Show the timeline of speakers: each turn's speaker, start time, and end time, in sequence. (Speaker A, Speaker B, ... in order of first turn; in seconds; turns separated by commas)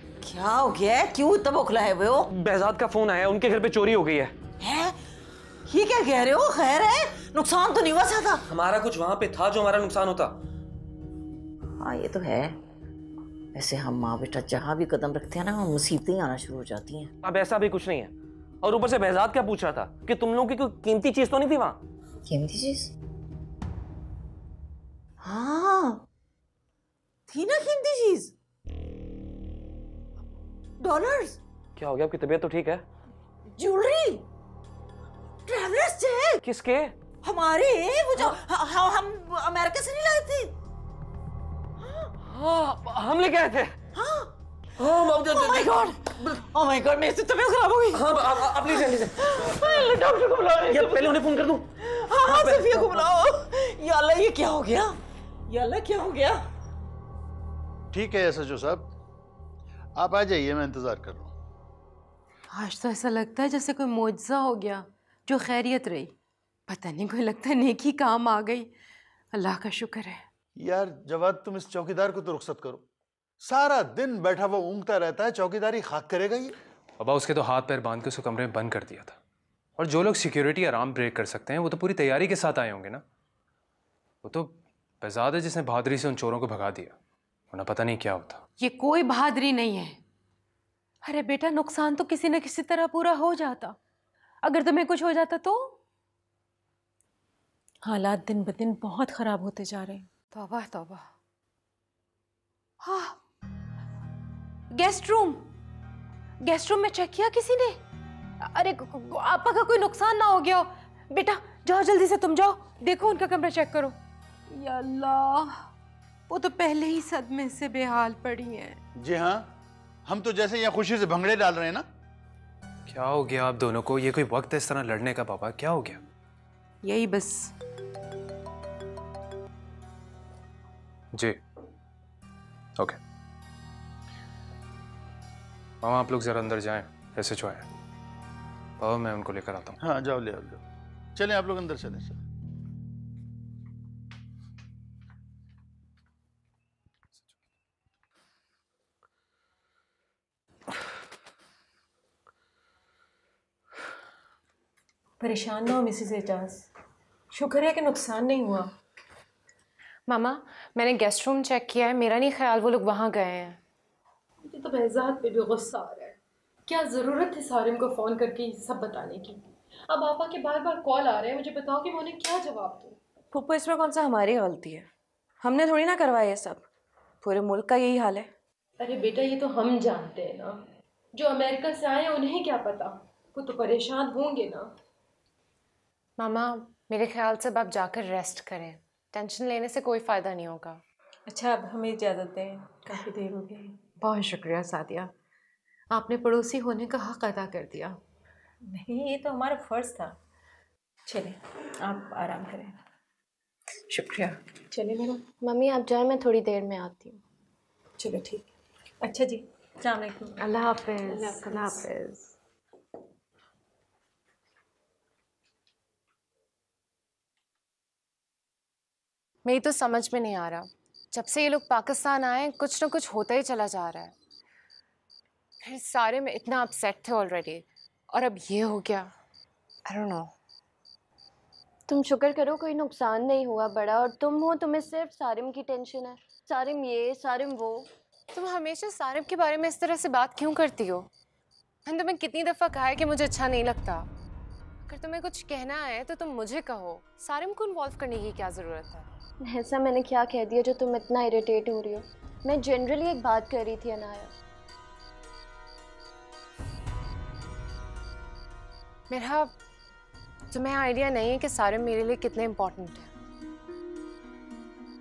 Speaker A: 0.2-2.3, Speaker B: 2.3-4.3, Speaker A: 4.6-5.0, Speaker A: 5.7-8.4, Speaker B: 8.5-10.4, Speaker A: 11.8-12.6, Speaker A: 13.5-17.1, Speaker B: 17.2-21.8, Speaker A: 22.3-22.9, Speaker A: 25.2-26.0, Speaker A: 27.3-28.3, Speaker A: 30.8-31.4, Speaker B: 31.8-32.8, Speaker A: 33.6-34.2, Speaker A: 35.5-36.4, Speaker B: 36.4-36.9, Speaker A: 37.2-40.5, Speaker B: 42.2-43.8, Speaker A: 43.9-44.3, Speaker B: 44.8-46.4, Speaker A: 45.2-51.2, Speaker B: 47.9-49.9, Speaker B: 50.7-51.7, Speaker A: 51.8-56.4, Speaker B: 52.3-53.0, Speaker C: 57.9-58.9, Speaker C: 60.0-61.3, Speaker D: 62.5-66.1, Speaker D: 66.7-68.7, Speaker D: 69.3-70.2, Speaker C: 70.6-72.8, Speaker C: 73.4-76.5, Speaker E: 77.0-79.2, Speaker E: 79.8-83.0, Speaker E: 84.2-87.0, Speaker E: 87.5-88.4, Speaker D: 88.6-90.0, Speaker D: 91.0-93.8, Speaker D: 94.4-95.8, Speaker D: 97.9-101.0, Speaker D: 102.8-103.2, Speaker D: 104.7-105.5, Speaker D: 106.4-107.8, Speaker D: 108.4-114.0, Speaker D: 114.5-115.5, Speaker D: 116.3-118.8, Speaker C: 119.0-119.5, Speaker C: 120.1-121.8, Speaker E: 122.9-126.0, Speaker D: 126.8-127.5, Speaker E: 135.8-137.7, Speaker E: 138.8-139.8, Speaker C: 139.8-140.6, Speaker C: 141.2-142.2, Speaker D: 157.4-158.6, Speaker F: 160.1-163.6, Speaker D: 164.4-173.0, Speaker G: 173.3-174.9, Speaker G: 175.4-176.7, Speaker G: 177.2-178.3, Speaker D: 178.8-180.6, Speaker D: 181.1-184.7, Speaker F: 186.2-190.8, Speaker D: 191.3-192.7, Speaker D: 194.0-195.1, Speaker D: 195.9-198.0, Speaker H: 205.4-207.2, Speaker D: 210.4-212.2, Speaker F: 219.4-224.1, Speaker F: 225.6-229.1, Speaker H: 231.9-237.9, Speaker F: 238.3-241.1, Speaker F: 241.9-244.1, Speaker F: 244.9-249.1, Speaker H: 249.4-254.3, Speaker F: 259.1-259.5, Speaker F: 260.5-263.1